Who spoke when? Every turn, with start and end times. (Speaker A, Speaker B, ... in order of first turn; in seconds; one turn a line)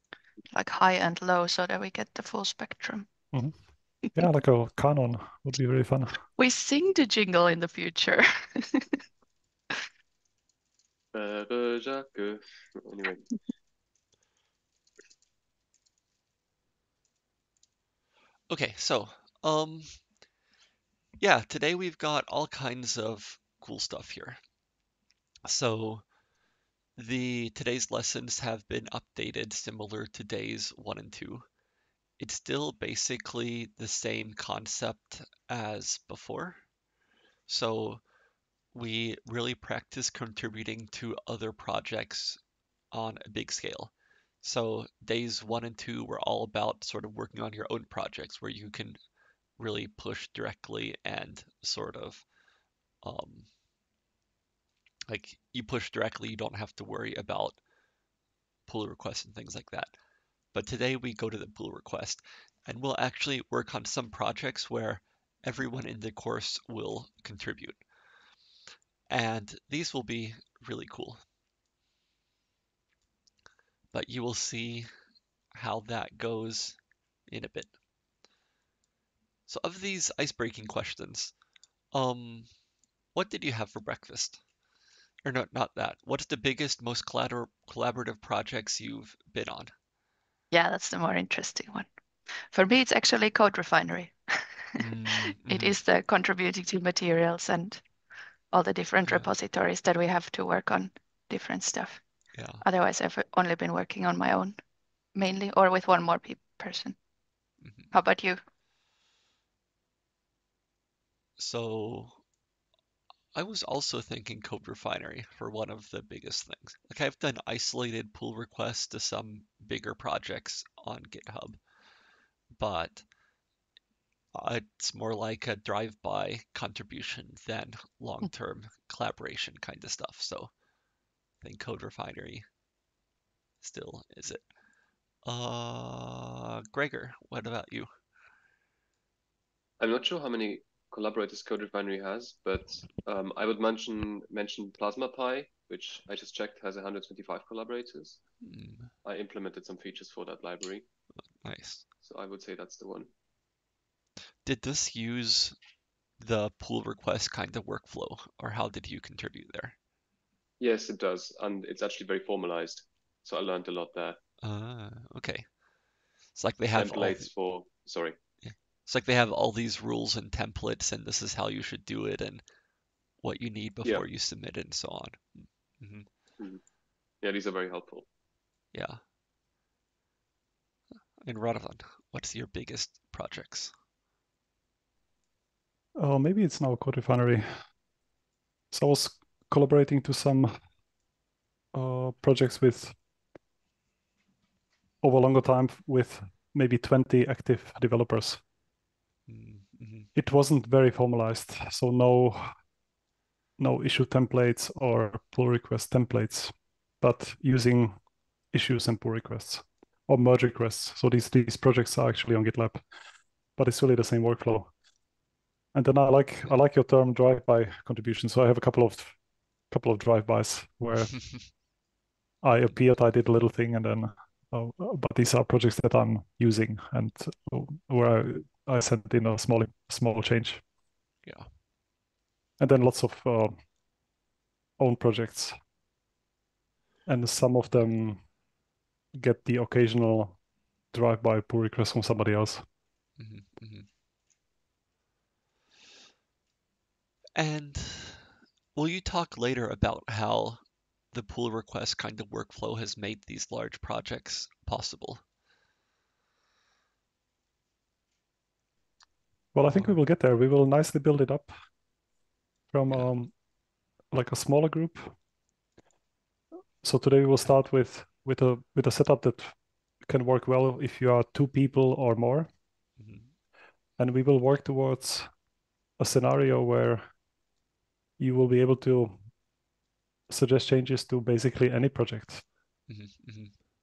Speaker A: 0.5-3.1
Speaker B: 3.3-3.6
Speaker B: 4.1-6.2
Speaker A: 6.4-9.0
Speaker C: 11.1-13.4
Speaker D: 18.5-20.0
Speaker D: 21.2-24.4
Speaker D: 25.4-26.1
Speaker D: 27.0-31.5
Speaker D: 32.2-36.7
Speaker D: 37.5-38.0
Speaker D: 38.7-42.4
Speaker D: 42.9-49.0
Speaker D: 49.6-52.3
Speaker D: 53.0-53.5
Speaker D: 55.1-57.6
Speaker D: 58.7-59.9
Speaker D: 60.5-67.8
Speaker D: 69.1-71.2
Speaker D: 73.9-74.9
Speaker D: 75.5-77.7
Speaker D: 79.5-81.3
Speaker D: 81.9-82.5
Speaker D: 83.1-84.4
Speaker D: 85.2-89.7
Speaker A: 90.5-91.9
Speaker A: 92.5-94.7
Speaker D: 94.8-95.8
Speaker A: 95.4-97.8
Speaker A: 98.5-102.0
Speaker D: 99.1-99.3
Speaker D: 102.3-102.6
Speaker A: 102.6-104.6
Speaker A: 105.1-107.0
Speaker D: 107.6-107.9
Speaker A: 107.9-108.4
Speaker D: 111.4-112.2
Speaker D: 113.3-121.6
Speaker D: 122.5-123.1
Speaker D: 124.3-130.5
Speaker D: 131.4-132.5
Speaker D: 133.6-134.5
Speaker D: 135.2-137.9
Speaker C: 139.8-148.2
Speaker D: 148.4-148.9
Speaker C: 149.0-150.8
Speaker D: 151.4-151.9
Speaker C: 152.0-153.1
Speaker D: 154.4-155.6
Speaker D: 156.2-159.8
Speaker C: 160.6-164.2
Speaker D: 164.4-165.5
Speaker D: 166.3-167.3
Speaker C: 166.7-168.2
Speaker D: 168.4-172.4
Speaker D: 173.2-176.1
Speaker C: 177.2-178.1
Speaker D: 178.7-179.0
Speaker D: 181.2-183.7
Speaker B: 186.0-187.4
Speaker B: 188.7-190.5
Speaker B: 191.7-193.0
Speaker B: 195.0-198.4
Speaker D: 199.3-200.1
Speaker B: 200.2-202.4
Speaker B: 203.6-208.0
Speaker B: 208.5-212.8
Speaker B: 213.6-214.7
Speaker B: 215.7-219.2
Speaker B: 219.7-221.3
Speaker B: 222.4-230.6
Speaker D: 231.2-231.5
Speaker B: 232.6-233.6
Speaker B: 234.8-235.6
Speaker B: 237.1-238.3
Speaker B: 239.1-240.4
Speaker B: 240.9-242.6
Speaker D: 243.2-243.9
Speaker D: 247.3-255.2
Speaker B: 259.5-261.5
Speaker D: 259.7-260.0
Speaker B: 262.7-263.4
Speaker B: 264.1-265.1
Speaker B: 266.8-272.5
Speaker D: 273.0-273.3
Speaker B: 274.0-275.3
Speaker B: 276.0-277.0
Speaker B: 278.2-279.2
Speaker B: 280.3-282.4
Speaker D: 282.9-283.6